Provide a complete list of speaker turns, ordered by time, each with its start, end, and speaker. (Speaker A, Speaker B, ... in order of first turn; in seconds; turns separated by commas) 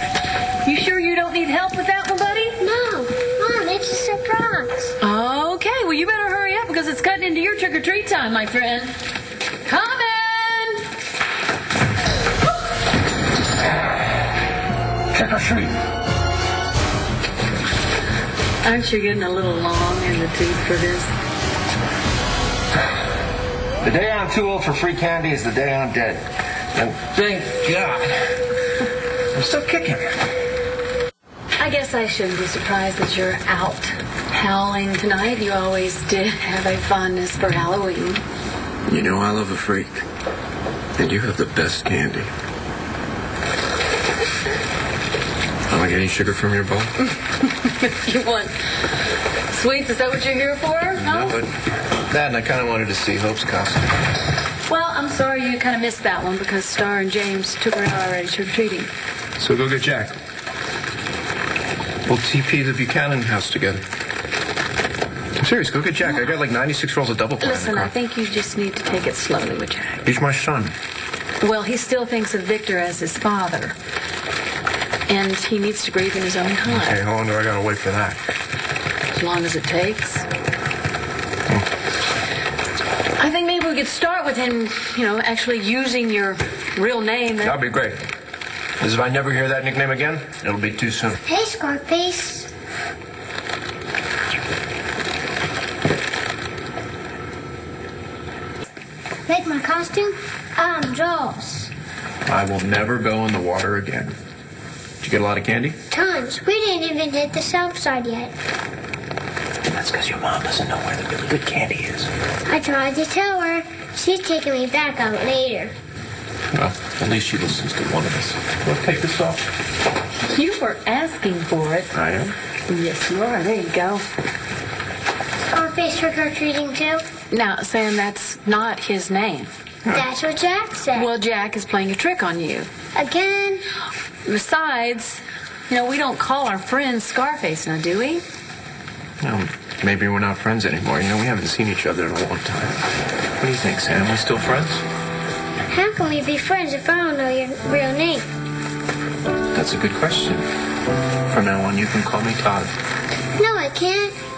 Speaker A: 0.6-2.6, Speaker B: 2.6-4.9, Speaker A: 5.0-9.0, Speaker A: 9.6-10.9, Speaker C: 15.2-15.7, Speaker A: 18.6-21.1, Speaker D: 23.8-26.2, Speaker C: 24.0-26.0, Speaker D: 26.7-28.1, Speaker D: 29.4-30.0, Speaker A: 31.6-38.2, Speaker D: 38.9-40.0, Speaker D: 41.0-42.3, Speaker D: 45.7-47.0, Speaker A: 47.2-51.4, Speaker D: 50.9-53.9, Speaker A: 54.6-58.9, Speaker D: 59.4-60.2, Speaker D: 62.0-63.8, Speaker D: 65.4-67.9, Speaker A: 67.4-70.0, Speaker D: 70.0-70.7, Speaker A: 71.4-73.8, Speaker A: 75.1-77.0, Speaker D: 76.7-78.2, Speaker A: 79.1-80.2, Speaker A: 83.2-87.6, Speaker D: 87.4-88.0, Speaker D: 88.8-91.2, Speaker B: 91.2-92.5, Speaker B: 99.3-101.7, Speaker D: 102.2-104.2, Speaker D: 105.0-105.8, Speaker B: 105.9-108.3, Speaker D: 109.7-112.1, Speaker B: 112.5-115.7, Speaker D: 116.5-119.5, Speaker A: 120.2-121.9, Speaker D: 121.9-122.3, Speaker A: 122.7-124.0, Speaker B: 125.5-127.0, Speaker A: 127.3-129.5, Speaker B: 129.9-131.1, Speaker A: 130.9-132.7, Speaker B: 132.9-133.7, Speaker A: 134.2-138.2, Speaker D: 139.2-144.8, Speaker B: 145.7-148.3, Speaker D: 149.5-150.4, Speaker D: 151.3-152.8, Speaker B: 153.4-154.2